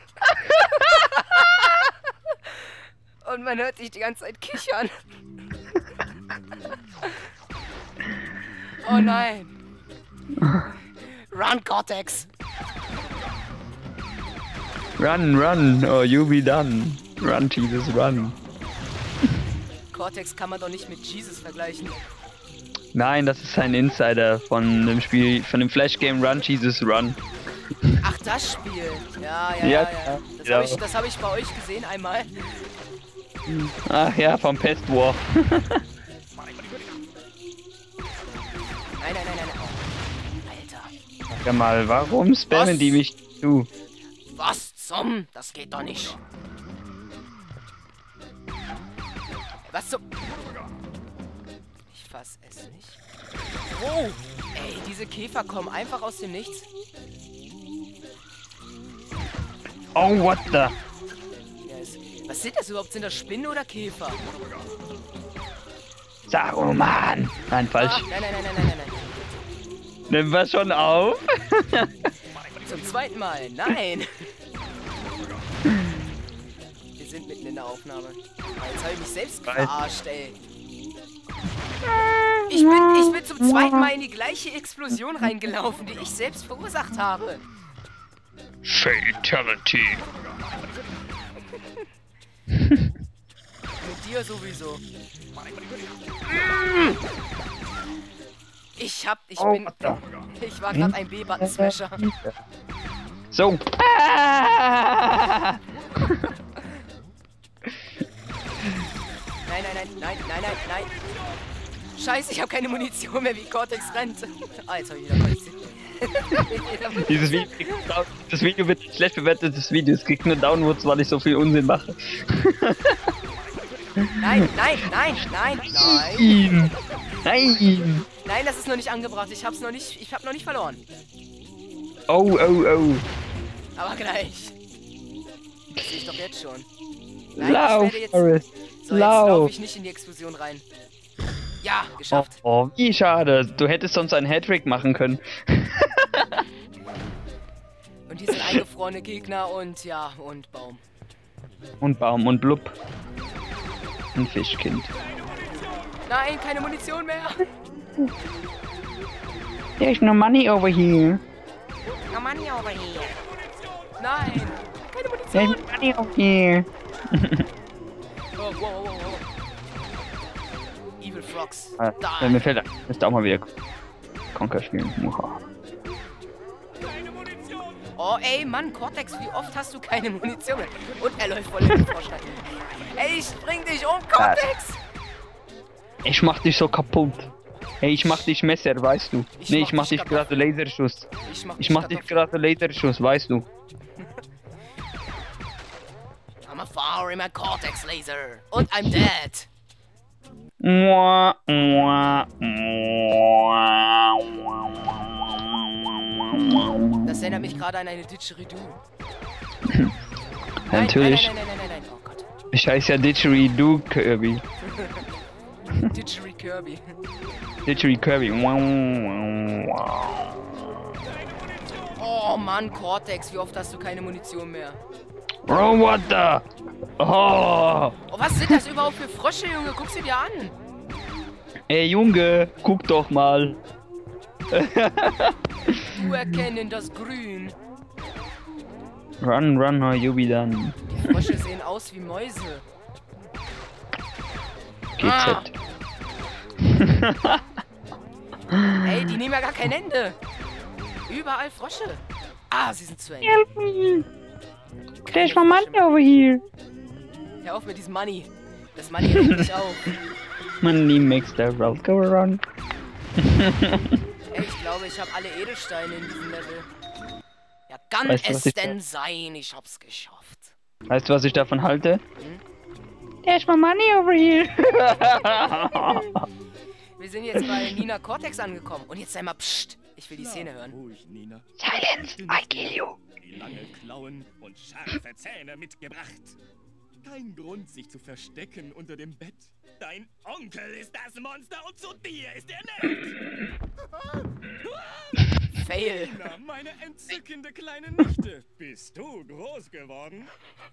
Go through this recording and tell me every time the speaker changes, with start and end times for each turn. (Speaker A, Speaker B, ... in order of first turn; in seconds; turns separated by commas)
Speaker A: 0.2-4.9, Speaker A: 8.8-9.5, Speaker B: 10.4-10.7, Speaker A: 11.1-12.3, Speaker B: 15.0-18.4, Speaker A: 19.9-22.1, Speaker B: 22.9-27.2, Speaker A: 28.0-32.6, Speaker B: 29.6-30.8, Speaker B: 33.5-35.8, Speaker A: 39.0-39.9, Speaker A: 40.4-40.9, Speaker B: 41.3-43.7, Speaker A: 42.5-43.0, Speaker A: 44.3-46.2, Speaker A: 49.7-50.0, Speaker A: 51.9-53.0, Speaker A: 53.7-56.7, Speaker B: 60.0-60.8, Speaker A: 61.6-64.2, Speaker B: 66.3-68.6, Speaker A: 67.8-69.4, Speaker B: 70.1-72.1, Speaker A: 72.6-74.1, Speaker B: 75.7-76.0, Speaker A: 77.0-80.4, Speaker B: 81.8-83.9, Speaker A: 82.5-87.5, Speaker B: 88.6-90.0, Speaker B: 92.5-92.9, Speaker A: 93.8-94.8, Speaker A: 96.3-96.9, Speaker A: 98.8-102.0, Speaker B: 99.4-100.0, Speaker B: 100.7-102.3, Speaker B: 103.3-106.2, Speaker A: 109.5-110.9, Speaker C: 110.7-111.4, Speaker A: 112.0-117.9, Speaker B: 117.1-123.0, Speaker A: 124.2-126.5, Speaker B: 125.6-128.1, Speaker A: 128.2-130.8, Speaker B: 132.1-133.1, Speaker A: 133.8-134.6, Speaker A: 135.8-136.7, Speaker B: 137.4-139.5, Speaker A: 137.4-138.3, Speaker A: 138.8-140.7, Speaker A: 141.6-142.4, Speaker B: 142.1-146.4, Speaker A: 148.1-150.8, Speaker B: 148.3-148.6, Speaker B: 151.8-152.7, Speaker B: 154.2-154.9, Speaker C: 154.9-155.9, Speaker A: 156.1-157.4, Speaker B: 159.8-161.2, Speaker A: 162.1-163.2, Speaker C: 163.2-163.9, Speaker A: 164.0-165.7, Speaker B: 165.3-167.5, Speaker A: 168.4-169.2, Speaker A: 171.0-172.5, Speaker B: 171.8-173.5, Speaker B: 174.3-175.4, Speaker C: 176.8-177.8, Speaker A: 178.0-184.8, Speaker B: 184.2-184.4, Speaker B: 186.0-187.3, Speaker B: 187.8-193.5, Speaker A: 187.9-188.3, Speaker A: 189.4-190.5, Speaker A: 191.2-192.3, Speaker A: 196.4-199.5, Speaker B: 200.6-207.5, Speaker A: 207.0-208.8, Speaker B: 210.7-211.3, Speaker A: 210.7-212.3, Speaker B: 212.5-214.4, Speaker A: 214.6-215.1, Speaker A: 215.9-216.8, Speaker B: 217.7-220.6, Speaker C: 221.0-222.0, Speaker A: 222.0-224.8, Speaker B: 225.5-226.5, Speaker B: 227.0-228.6, Speaker A: 228.1-230.6, Speaker B: 231.7-233.6, Speaker B: 234.5-235.8, Speaker A: 235.9-237.6, Speaker B: 239.2-241.2, Speaker A: 240.9-242.7, Speaker B: 245.0-245.5, Speaker A: 245.0-245.5, Speaker B: 246.6-247.4, Speaker B: 248.5-248.8, Speaker A: 248.8-250.2, Speaker A: 251.1-253.4, Speaker B: 253.2-254.1, Speaker A: 255.0-255.9, Speaker B: 255.1-256.4, Speaker A: 257.4-259.9, Speaker B: 259.1-259.4, Speaker B: 260.6-262.4, Speaker B: 263.2-264.0, Speaker A: 264.3-266.7, Speaker A: 267.7-270.5, Speaker B: 268.1-268.8, Speaker B: 270.9-272.0, Speaker B: 273.2-276.2, Speaker A: 275.2-276.2, Speaker A: 277.0-280.8, Speaker C: 280.1-286.4, Speaker B: 281.6-283.0, Speaker C: 287.0-293.2, Speaker C: 294.6-300.4, Speaker A: 295.5-296.2